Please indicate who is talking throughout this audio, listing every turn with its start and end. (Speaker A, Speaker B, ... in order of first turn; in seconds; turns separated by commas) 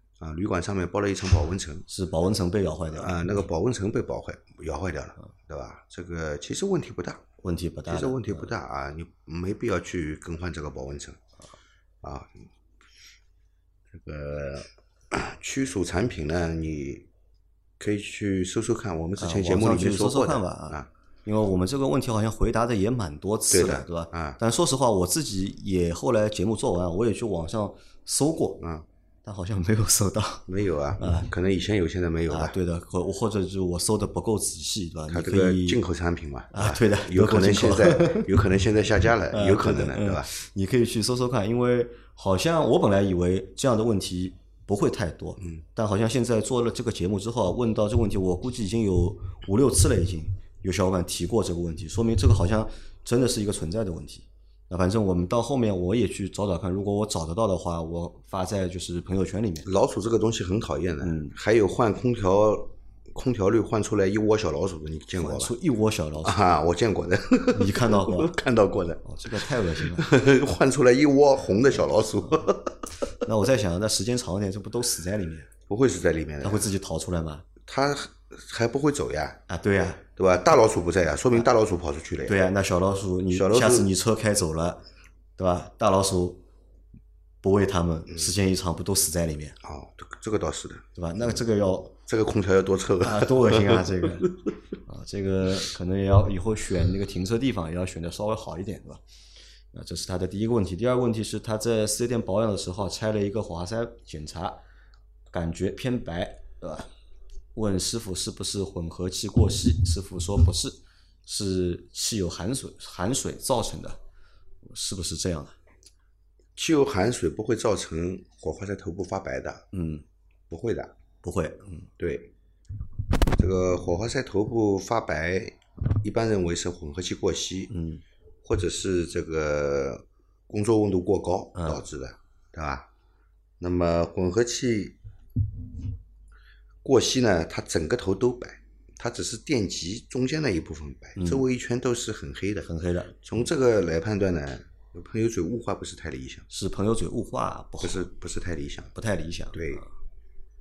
Speaker A: 0.2-1.9, Speaker B: 1.9-3.2, Speaker A: 2.9-7.3, Speaker B: 7.4-8.5, Speaker A: 7.9-11.2, Speaker A: 12.0-12.4, Speaker A: 13.9-17.1, Speaker A: 17.8-20.9, Speaker B: 19.2-28.6, Speaker A: 23.5-24.4, Speaker B: 29.2-30.5, Speaker A: 30.5-32.6, Speaker B: 31.0-31.3, Speaker B: 32.3-35.8, Speaker A: 35.1-40.3, Speaker B: 36.5-38.4, Speaker B: 39.3-59.7, Speaker A: 59.6-65.5, Speaker B: 61.0-61.4, Speaker B: 65.2-66.4, Speaker A: 66.2-72.9, Speaker B: 67.5-68.3, Speaker B: 69.0-70.1, Speaker B: 73.2-75.5, Speaker A: 75.7-76.7, Speaker B: 76.4-77.5, Speaker A: 77.7-79.4, Speaker B: 79.5-80.0, Speaker A: 80.2-82.4, Speaker B: 82.3-84.8, Speaker A: 83.3-83.9, Speaker B: 85.4-86.4, Speaker B: 87.4-89.6, Speaker A: 89.6-91.4, Speaker B: 91.0-92.0, Speaker A: 92.1-94.3, Speaker B: 93.0-94.3, Speaker B: 94.8-99.0, Speaker B: 99.7-104.6, Speaker B: 105.3-106.9, Speaker B: 107.5-114.0, Speaker B: 114.6-115.6, Speaker A: 116.6-119.7, Speaker B: 119.7-120.0, Speaker A: 120.5-120.9, Speaker B: 121.2-121.9, Speaker A: 122.0-122.3, Speaker A: 123.3-127.7, Speaker B: 127.7-128.0, Speaker A: 128.4-132.9, Speaker B: 131.6-131.8, Speaker A: 133.6-135.0, Speaker A: 136.8-142.7, Speaker B: 141.2-141.4, Speaker B: 142.6-143.2, Speaker A: 143.2-146.5, Speaker B: 146.5-148.1, Speaker A: 147.8-148.9, Speaker B: 148.9-149.8, Speaker A: 149.5-149.8